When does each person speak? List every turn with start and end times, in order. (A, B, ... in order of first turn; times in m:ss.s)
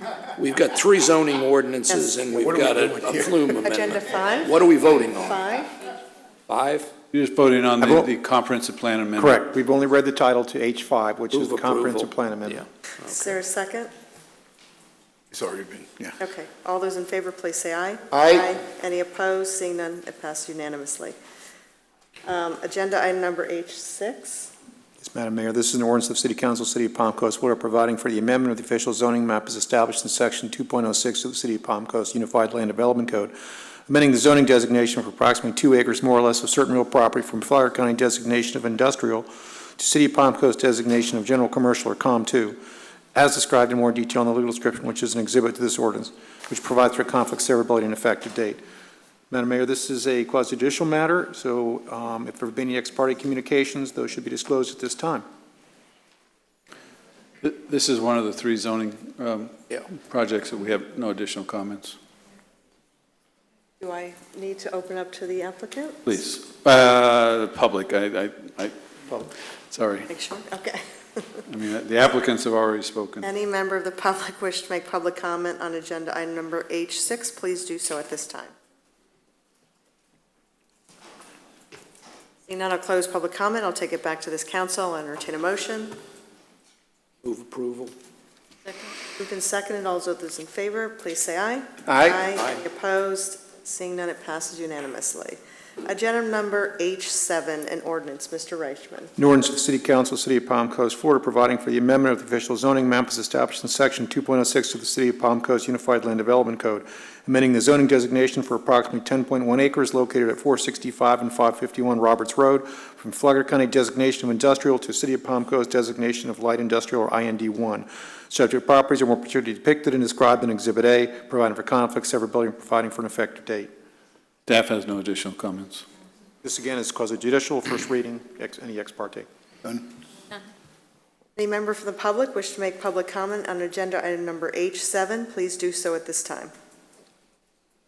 0:00.4-0:05.4 A
0:01.9-0:02.2 B
0:02.2-0:03.5 C
0:03.5-0:04.6 B
0:05.1-0:05.8 B
0:06.5-0:06.9 A
0:07.1-0:09.4 D
0:07.8-0:08.1 E
0:09.2-0:12.7 E
0:11.3-0:12.1 A
0:13.0-0:13.9 B
0:15.3-0:16.2 C
0:16.2-0:21.1 B
0:18.1-0:18.5 C
0:22.2-0:24.5 B
0:25.0-0:33.3 E
0:33.9-0:42.6 E
0:43.1-0:48.6 E
0:49.3-0:55.2 E
0:57.4-1:02.0 D
1:03.8-1:06.0 B
1:06.0-1:10.1 D
1:10.1-1:11.4 B
1:11.5-1:13.3 D
1:13.2-1:18.5 B
1:22.5-1:25.9 B
1:27.2-1:27.9 A
1:29.2-1:39.1 B
1:31.9-1:32.3 C
1:39.2-2:03.7 E
2:04.5-2:05.8 D
2:06.4-2:09.8 E
2:11.4-2:16.5 B